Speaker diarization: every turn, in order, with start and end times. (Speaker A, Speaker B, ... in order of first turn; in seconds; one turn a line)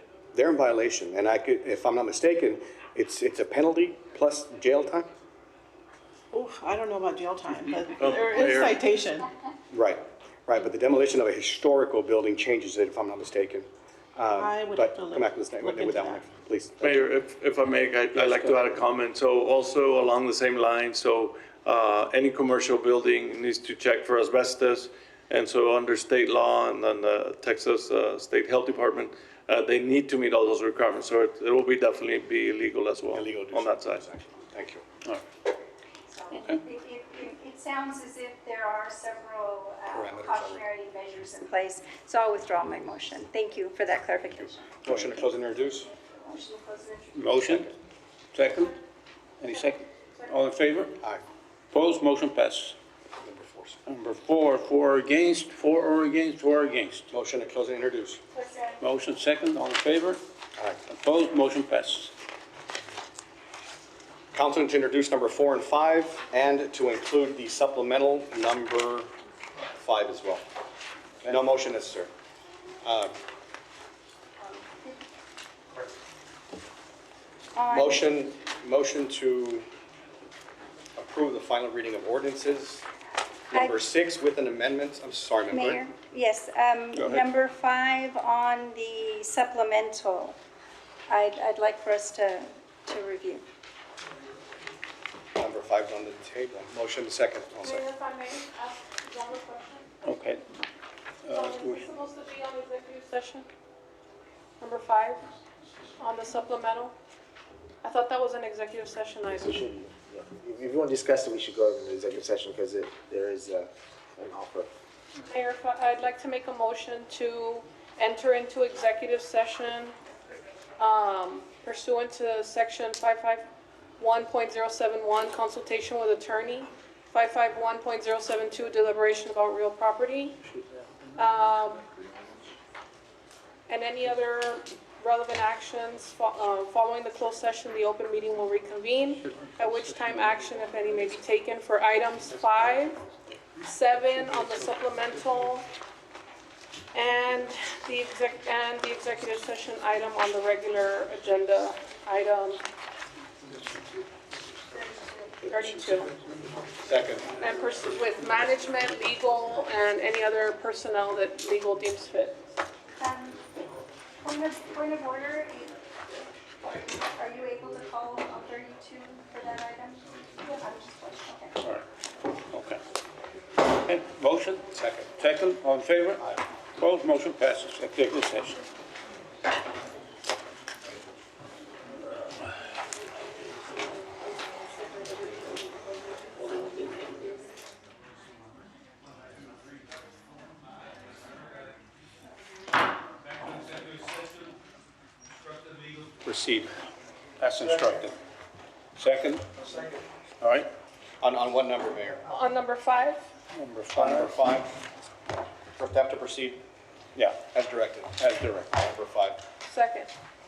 Speaker A: 0.3-5.1
Speaker B: 6.3-9.3
Speaker C: 7.9-8.8
Speaker A: 9.7-17.0
Speaker B: 14.3-16.2
Speaker C: 16.8-34.0
Speaker A: 33.1-34.8
Speaker D: 36.1-44.7
Speaker A: 39.9-40.6
Speaker A: 44.8-45.9
Speaker D: 45.9-47.7
Speaker E: 47.1-47.7
Speaker E: 48.3-48.8
Speaker E: 49.4-51.0
Speaker E: 51.7-52.8
Speaker A: 53.2-53.8
Speaker E: 53.9-57.1
Speaker A: 57.1-58.2
Speaker F: 58.3-58.8
Speaker E: 58.8-60.2
Speaker E: 60.9-62.1
Speaker A: 64.3-69.1
Speaker A: 69.8-70.5
Speaker A: 71.2-72.1
Speaker A: 72.8-73.2
Speaker D: 77.5-78.1
Speaker A: 77.7-79.7
Speaker A: 81.0-82.8
Speaker A: 83.5-85.8
Speaker D: 83.5-83.8
Speaker D: 85.5-90.4
Speaker E: 86.9-87.3
Speaker D: 91.1-93.5
Speaker A: 95.4-97.9
Speaker F: 97.6-99.9
Speaker E: 100.0-100.4
Speaker E: 101.2-101.8
Speaker F: 101.3-103.5
Speaker F: 104.6-105.2
Speaker F: 106.0-106.9
Speaker F: 107.8-109.5
Speaker G: 109.3-114.7
Speaker F: 115.3-120.0
Speaker F: 120.8-123.5
Speaker F: 124.0-130.4
Speaker F: 131.2-131.8
Speaker F: 133.7-143.0
Speaker F: 143.6-145.7
Speaker F: 146.9-152.6
Speaker D: 154.7-155.4
Speaker F: 155.5-156.1
Speaker A: 156.8-157.2
Speaker F: 157.3-162.4
Speaker D: 163.0-163.4
Speaker D: 164.2-165.8
Speaker D: 166.6-171.5
Speaker E: 172.5-172.8
Speaker E: 173.8-178.6
Speaker A: 174.7-175.1
Speaker E: 196.2-196.8
Speaker E: 197.4-198.2
Speaker E: 198.9-199.5
Speaker E: 200.4-200.7
Speaker A: 201.2-202.2
Speaker F: 202.3-203.2
Speaker E: 203.5-204.3
Speaker A: 203.9-204.8
Speaker A: 205.8-206.6
Speaker E: 207.1-207.4
Speaker A: 207.5-209.4
Speaker E: 208.2-208.7
Speaker F: 209.6-210.1